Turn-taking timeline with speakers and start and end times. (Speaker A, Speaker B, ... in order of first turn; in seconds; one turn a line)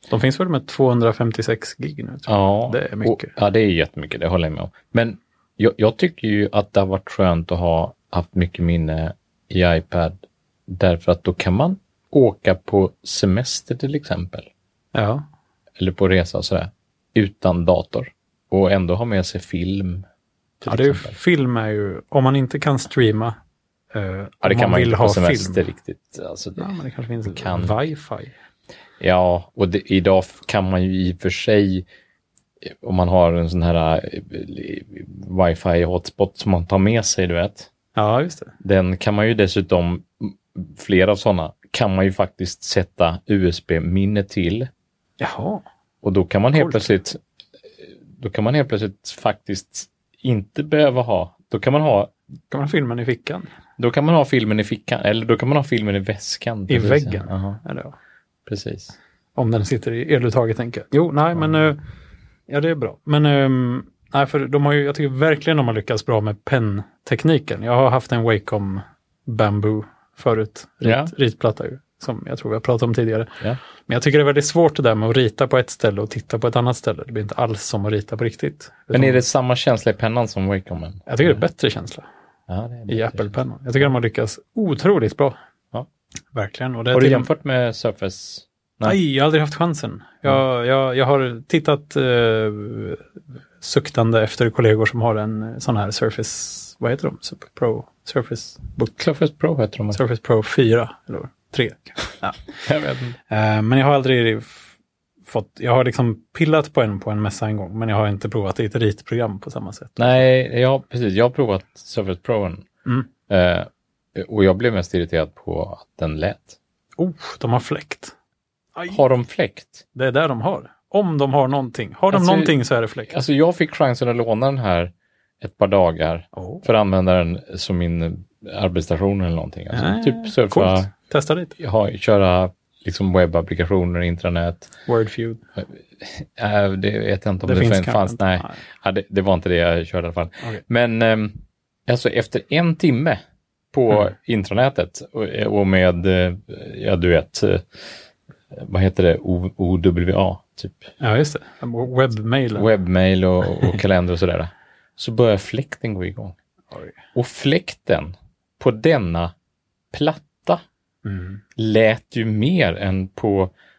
Speaker A: 0.1-3.3
Speaker B: 2.3-14.5
Speaker A: 14.9-15.3
Speaker B: 15.8-20.1
Speaker B: 20.6-21.2
Speaker A: 20.7-23.4
Speaker A: 23.9-25.7
Speaker B: 24.4-27.8
Speaker A: 26.6-28.3
Speaker B: 29.0-31.9
Speaker B: 32.6-37.7
Speaker A: 38.0-38.5
Speaker B: 38.6-44.7
Speaker A: 45.2-45.6
Speaker B: 46.0-47.2
Speaker A: 46.5-46.9
Speaker B: 47.8-52.1
Speaker A: 52.5-53.5
Speaker B: 53.8-57.6
Speaker A: 56.7-58.0
Speaker B: 58.5-58.9
Speaker A: 59.4-61.8
Speaker A: 62.5-79.2
Speaker B: 70.8-71.1
Speaker B: 78.9-81.4
Speaker A: 81.1-82.0
Speaker B: 82.5-83.3
Speaker A: 82.9-85.3
Speaker A: 86.3-87.3
Speaker B: 86.9-89.0
Speaker A: 88.8-93.0
Speaker A: 93.6-98.9
Speaker B: 99.0-100.0
Speaker A: 99.9-102.4
Speaker B: 102.6-103.2
Speaker A: 103.3-104.7
Speaker A: 105.3-110.3
Speaker B: 110.0-112.7
Speaker B: 113.3-116.6
Speaker A: 117.0-118.1
Speaker A: 118.8-119.0
Speaker B: 118.9-119.8
Speaker A: 119.9-123.2
Speaker B: 122.1-122.5
Speaker B: 123.1-130.9
Speaker A: 126.3-126.6
Speaker A: 129.7-131.6
Speaker B: 131.6-134.7
Speaker A: 134.9-135.4
Speaker B: 135.6-143.2
Speaker A: 137.4-138.6
Speaker B: 143.7-147.7
Speaker B: 148.5-150.9
Speaker A: 151.0-152.7
Speaker B: 152.6-156.4
Speaker B: 157.2-159.3
Speaker B: 159.9-160.6
Speaker A: 161.0-161.4
Speaker B: 161.6-163.5